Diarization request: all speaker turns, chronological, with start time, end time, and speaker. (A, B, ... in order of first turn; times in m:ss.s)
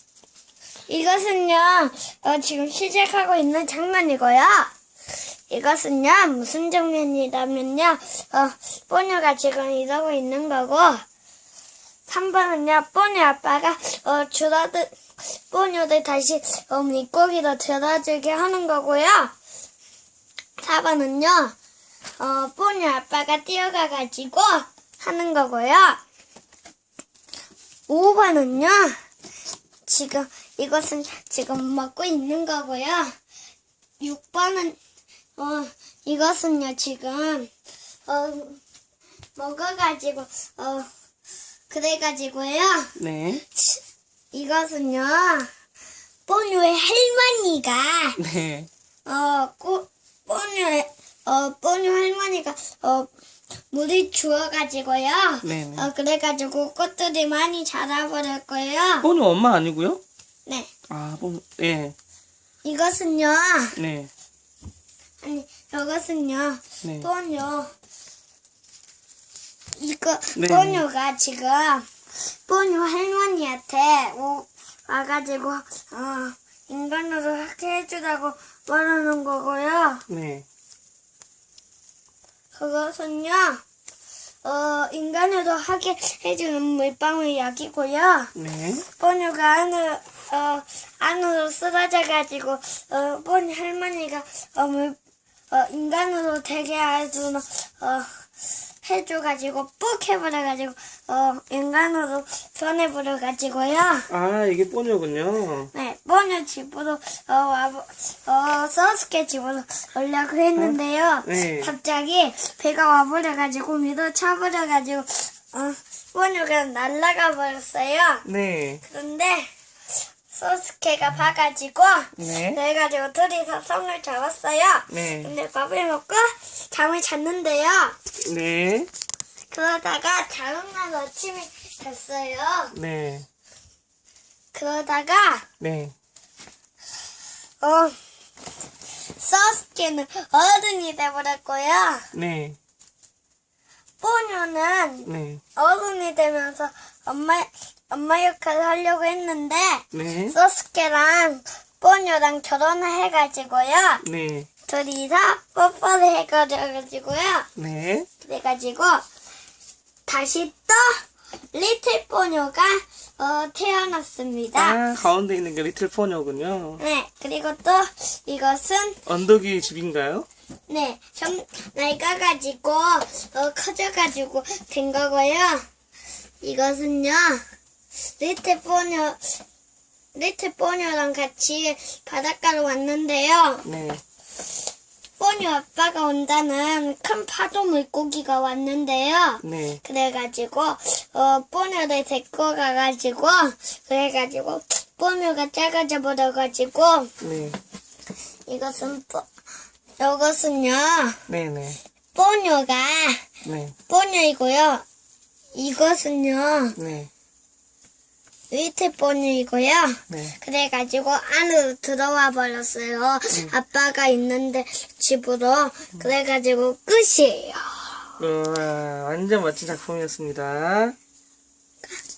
0:00.9-0:04.7 A
0:05.5-0:11.0 A
0:12.1-0:19.3 A
0:20.6-0:21.5 A
0:22.2-0:26.0 A
0:27.9-0:29.0 A
0:29.8-0:33.1 A
0:34.0-0:34.8 A
0:35.4-0:37.5 A
0:38.1-0:38.6 A
0:39.4-0:40.9 A
0:41.7-0:42.9 A
0:43.0-0:43.4 B
0:43.5-0:43.8 A
0:44.3-0:45.5 A
0:46.2-0:48.2 A
0:48.2-0:48.7 B
0:49.0-0:53.1 A
0:53.7-0:59.1 A
0:55.4-0:55.9 B
0:59.0-1:00.0 B
1:00.9-1:01.9 B
1:02.6-1:03.8 A
1:03.7-1:04.1 B
1:05.2-1:07.7 A
1:06.8-1:07.1 B
1:09.8-1:20.0 A
1:10.3-1:10.8 B
1:20.1-1:20.4 B
1:22.5-1:23.6 A
1:24.4-1:28.3 A
1:28.3-1:28.8 B
1:28.8-1:35.0 A
1:35.5-1:38.2 A
1:38.8-1:44.1 A
1:44.1-1:45.7 B
1:45.7-1:58.2 A
1:50.6-1:51.7 B
1:58.2-1:58.8 B
1:58.8-1:59.5 A
2:00.3-2:08.0 A
2:02.2-2:02.6 B
2:04.9-2:05.3 B
2:08.2-2:08.9 B
2:09.5-2:12.7 A
2:12.7-2:13.2 B
2:14.5-2:15.4 A
2:15.6-2:15.9 B
2:17.6-2:18.0 A
2:19.0-2:22.1 A
2:22.1-2:22.6 B
2:24.0-2:34.0 A
2:25.0-2:25.4 B
2:29.9-2:30.4 B
2:34.0-2:34.5 B
2:34.7-2:37.5 A
2:37.6-2:38.1 B
2:38.2-2:39.0 A
2:40.1-2:44.8 A
2:44.5-2:46.8 B
2:46.8-2:49.0 A
2:49.0-2:50.3 B
2:50.7-2:55.6 A
2:56.4-2:57.4 A
2:58.2-2:59.4 A
3:00.1-3:03.6 A
3:03.6-3:04.0 B
3:05.2-3:17.1 A
3:09.4-3:09.8 B
3:17.2-3:17.6 B
3:18.5-3:19.2 A
3:20.0-3:21.2 A
3:21.3-3:21.8 B
3:22.1-3:23.2 A
3:23.4-3:23.7 B
3:23.9-3:24.8 A
3:25.5-3:26.8 A
3:26.8-3:27.1 B
3:28.5-3:37.9 A
3:30.1-3:30.4 B
3:38.2-3:41.0 B